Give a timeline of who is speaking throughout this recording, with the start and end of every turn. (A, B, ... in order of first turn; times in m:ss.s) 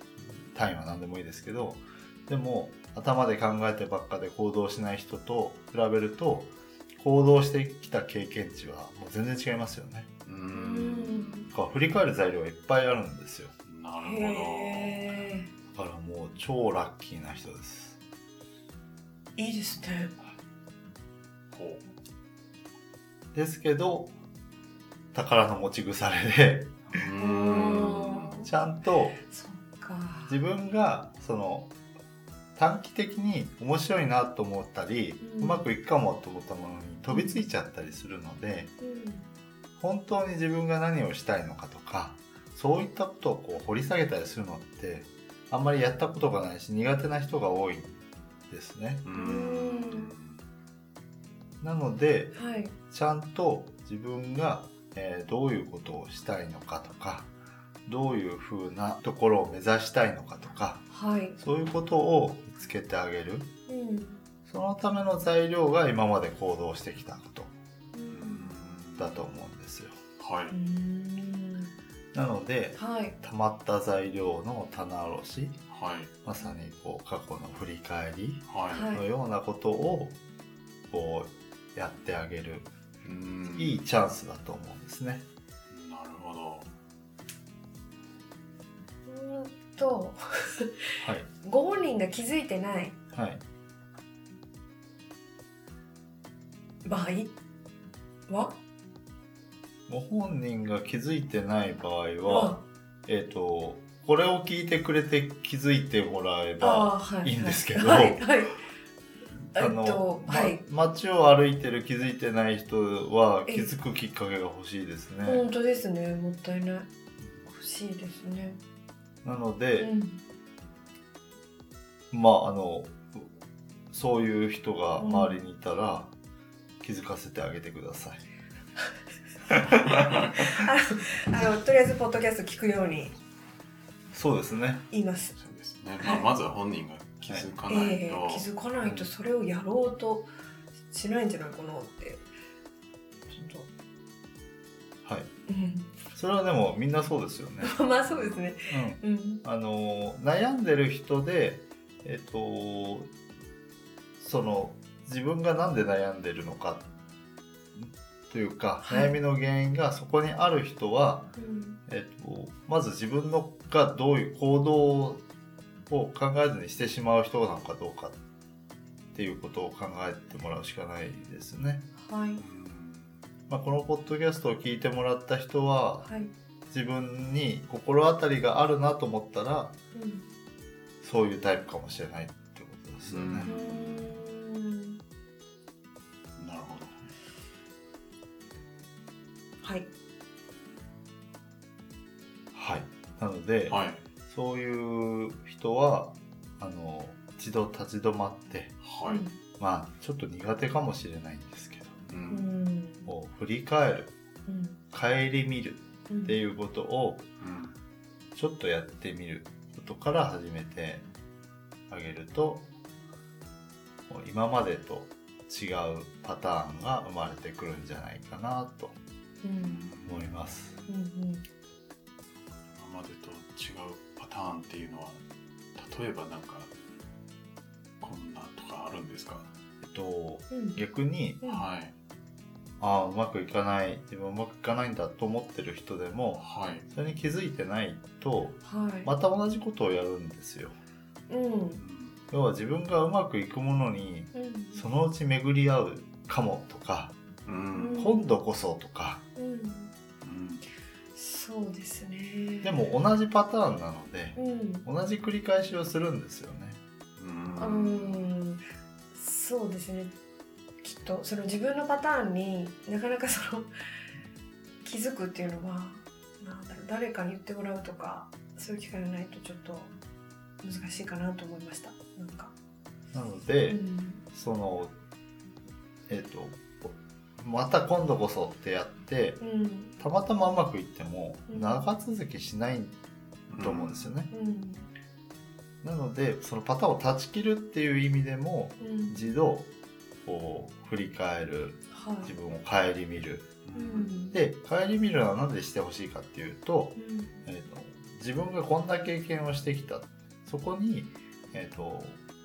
0:00.5-0:10.1 A
0:10.2-0:11.4 B
0:10.5-0:11.5 C
0:11.5-0:13.5 A
0:13.6-0:15.3 B
0:14.0-0:15.5 C
0:15.7-0:18.0 A
0:19.4-0:20.1 C
0:21.5-0:21.8 B
0:23.3-0:24.1 A
0:25.1-0:27.1 A
0:26.9-0:28.5 B
0:27.2-0:28.5 C
0:27.7-0:29.2 A
0:29.3-0:30.4 C
0:30.3-0:31.7 A
0:32.6-0:38.7 A
0:35.2-0:35.6 C
0:37.1-0:37.5 C
0:38.8-0:39.3 C
0:39.8-0:49.0 A
0:49.0-0:50.4 B
0:49.1-0:50.1 C
0:51.6-0:52.3 A
0:52.3-0:52.7 C
0:52.9-0:57.3 A
0:57.8-1:00.8 A
1:00.9-1:01.4 C
1:01.4-1:03.5 A
1:03.7-1:04.2 C
1:04.5-1:07.5 A
1:07.9-1:08.5 C
1:08.1-1:09.2 B
1:09.0-1:10.0 A
1:10.2-1:10.5 B
1:10.5-1:11.7 C
1:12.1-1:15.6 A
1:12.8-1:13.2 C
1:15.7-1:16.1 B
1:16.2-1:20.2 A
1:18.5-1:18.9 B
1:18.7-1:19.0 C
1:20.9-1:22.7 A
1:23.0-1:23.8 B
1:23.5-1:25.2 A
1:25.7-1:26.7 B
1:29.0-1:33.0 C
1:31.0-1:31.3 A
1:33.1-1:33.4 A
1:36.8-1:37.3 C
1:38.3-1:38.6 C
1:39.9-1:48.2 A
1:42.2-1:42.6 C
1:46.6-1:48.6 C
1:49.5-1:55.4 A
1:49.5-1:50.6 C
1:53.4-1:53.7 C
1:55.2-1:56.9 C
1:57.4-1:58.6 C
1:59.2-1:59.9 A
1:59.8-2:00.2 C
2:02.1-2:03.3 A
2:03.9-2:06.1 A
2:05.0-2:05.4 C
2:06.8-2:08.2 A
2:09.5-2:10.4 A
2:10.3-2:13.2 C
2:14.1-2:14.8 A
2:14.9-2:15.3 C
2:15.4-2:18.5 B
2:16.0-2:16.3 C
2:17.7-2:20.3 C
2:18.8-2:19.1 A
2:20.9-2:22.2 C
2:23.3-2:23.7 C
2:25.0-2:25.3 A
2:25.5-2:26.0 C
2:26.1-2:33.1 A
2:27.6-2:29.4 C
2:34.2-2:36.8 A
2:37.7-2:41.3 A
2:38.8-2:39.2 C
2:41.4-2:41.8 C
2:41.9-2:45.2 A
2:45.9-2:48.2 A
2:49.1-2:51.9 A
2:52.0-2:52.4 C
2:52.4-2:53.1 B
2:53.5-2:56.1 A
2:56.0-2:56.3 C
2:56.7-2:59.8 A
2:59.9-3:00.2 C
3:01.0-3:03.5 A
3:03.0-3:04.2 B
3:03.4-3:05.0 C
3:06.4-3:07.1 B
3:09.6-3:09.9 C
3:12.5-3:18.8 A
3:13.7-3:14.0 B
3:18.8-3:19.2 B
3:19.0-3:19.3 C
3:19.6-3:22.0 A
3:22.1-3:22.5 B
3:22.3-3:23.1 C
3:23.1-3:24.1 A
3:24.5-3:24.8 C
3:24.9-3:27.2 A
3:26.1-3:26.4 C
3:27.4-3:27.7 B
3:28.3-3:31.0 A
3:31.9-3:32.7 A
3:34.1-3:39.0 A
3:39.4-3:39.9 C
3:39.6-3:40.4 B
3:40.0-3:40.8 A
3:40.9-3:41.4 C
3:42.7-3:45.2 B
3:45.8-3:46.7 B
3:48.0-3:49.5 B
3:49.8-3:51.4 A
3:50.5-3:50.8 C
3:51.4-3:51.9 B
3:52.8-4:00.7 A
3:56.4-3:56.9 B
3:58.6-3:59.1 C
4:01.3-4:01.8 C
4:01.7-4:02.2 B
4:02.3-4:07.2 A
4:04.3-4:04.8 C
4:07.4-4:08.1 B
4:07.7-4:08.4 C
4:08.0-4:09.2 A
4:09.4-4:09.9 C
4:10.2-4:10.6 B
4:11.1-4:12.9 C
4:12.6-4:16.8 A
4:14.4-4:14.9 C
4:17.2-4:18.3 B
4:17.6-4:20.1 C
4:20.8-4:23.7 C
4:24.8-4:29.9 C
4:30.6-4:32.5 C
4:33.1-4:33.8 A
4:33.7-4:34.2 C
4:34.3-4:34.9 A
4:36.1-4:39.4 A
4:39.4-4:39.9 C
4:40.0-4:42.9 A
4:41.5-4:41.8 C
4:43.5-4:44.1 B
4:43.6-4:44.3 A
4:44.3-4:44.9 C
4:45.8-4:49.7 A
4:48.8-4:49.2 C
4:50.2-4:53.5 A
4:51.9-4:52.3 C
4:53.6-4:54.1 B
4:53.7-4:54.4 C
4:54.3-5:02.2 A
4:57.0-4:57.4 C